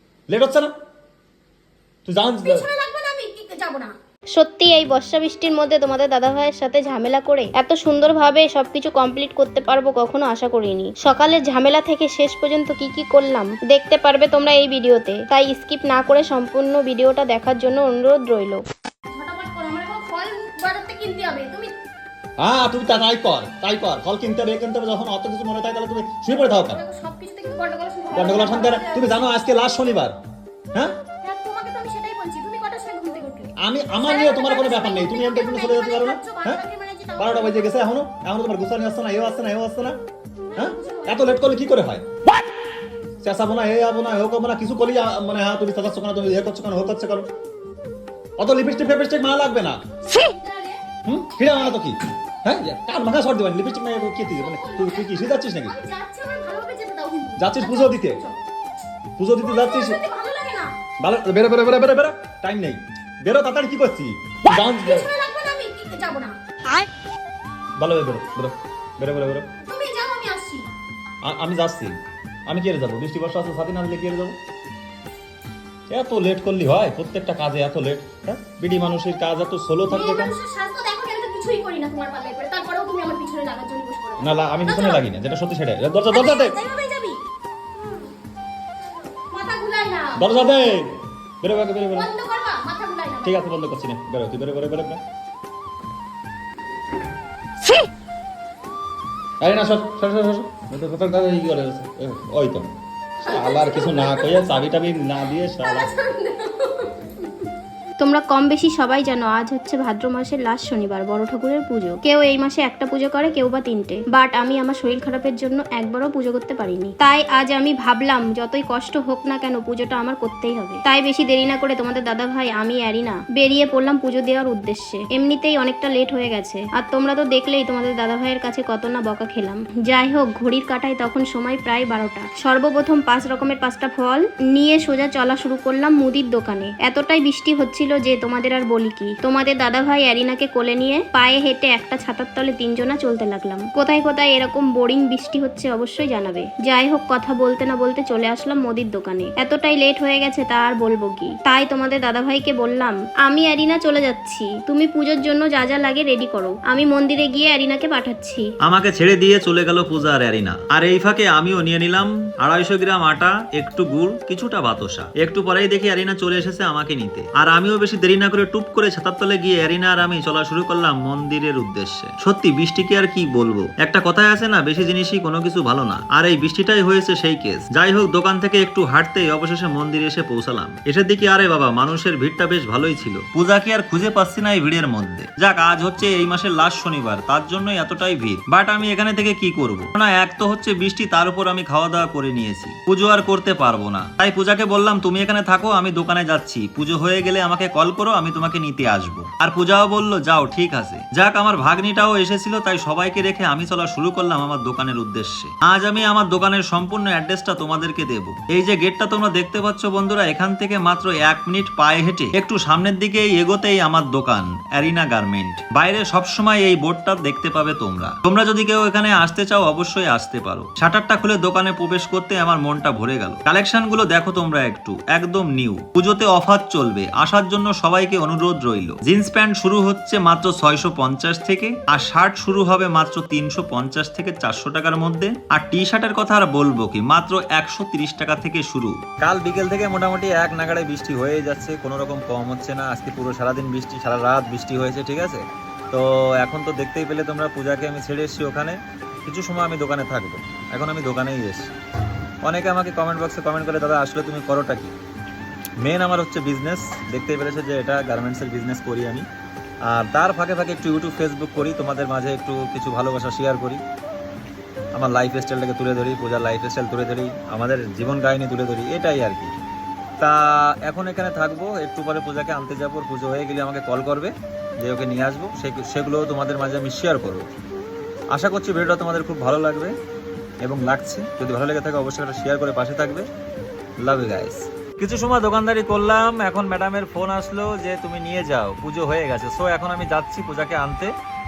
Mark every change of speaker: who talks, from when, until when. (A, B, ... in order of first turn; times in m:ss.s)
0:00.3-0:00.7 A
0:02.0-0:02.7 A
0:02.4-0:03.9 B
0:04.4-0:18.6 C
0:19.1-0:21.7 B
0:22.4-0:26.8 A
0:26.6-0:29.3 B
0:28.1-0:30.1 A
0:31.2-0:37.7 B
0:33.6-0:36.6 A
0:37.2-0:40.0 A
0:40.5-0:41.4 B
0:40.6-0:42.0 A
0:43.2-0:47.3 A
0:48.4-0:49.8 A
0:50.0-0:50.8 B
0:51.0-0:55.8 A
0:54.3-0:58.4 B
0:57.4-0:58.2 A
0:59.2-1:00.0 A
0:59.4-1:00.7 B
1:01.0-1:05.1 A
1:04.7-1:06.4 B
1:07.8-1:09.5 A
1:09.6-1:10.7 B
1:11.2-1:12.0 A
1:12.5-1:14.3 A
1:15.9-1:20.3 A
1:19.9-1:25.0 B
1:24.2-1:26.6 A
1:26.1-1:27.2 B
1:29.3-1:30.2 B
1:30.2-1:32.1 A
1:31.9-1:33.5 B
1:33.2-1:35.0 A
1:39.4-1:42.7 A
1:43.2-1:44.4 B
1:43.3-1:45.9 A
1:45.6-1:47.1 B
1:48.0-2:38.5 C
2:38.6-4:11.7 D
4:12.4-4:14.9 D
4:15.8-4:19.2 D
4:19.8-4:23.8 D
4:24.9-4:29.6 D
4:30.2-4:37.5 D
4:38.3-4:40.0 D
4:40.6-4:43.3 D
4:44.0-4:51.1 D